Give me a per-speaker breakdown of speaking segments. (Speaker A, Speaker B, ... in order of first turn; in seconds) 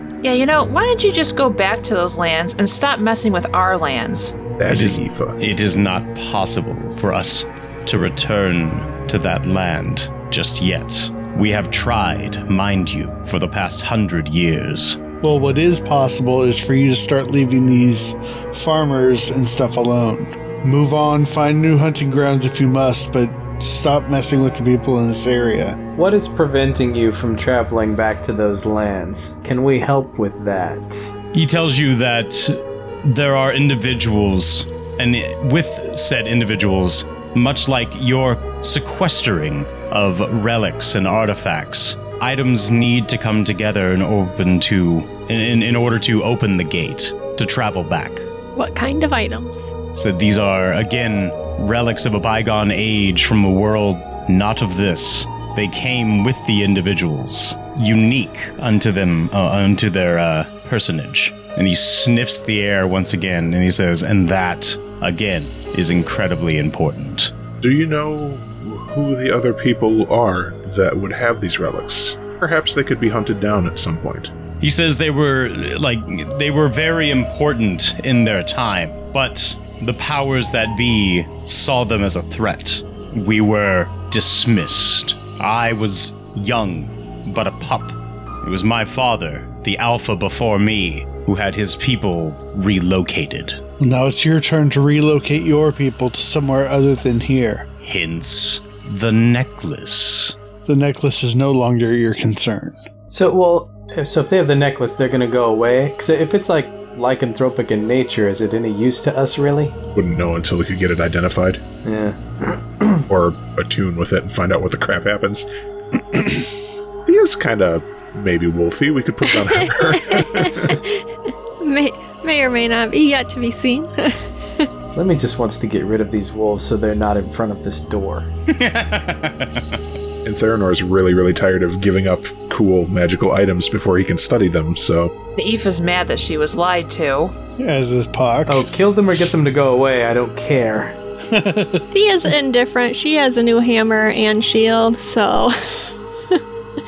Speaker A: 0.2-4.4, 135.4-137.3
Speaker B: 4.6-5.4, 67.6-74.3, 109.9-111.6, 113.1-115.5, 117.1-120.8, 130.2-135.2
Speaker C: 4.7-15.0, 31.3-48.3, 49.9-67.3, 74.6-93.6, 97.8-100.3, 128.5-129.8
Speaker D: 15.2-25.8, 93.8-97.7, 100.7-102.8, 137.6-138.8, 141.3-141.9
Speaker E: 26.0-31.1, 103.1-109.8, 111.8-113.0, 125.0-128.3, 138.5-141.0
Speaker F: 48.5-49.7, 119.5-121.0, 121.6-124.7, 141.9-146.4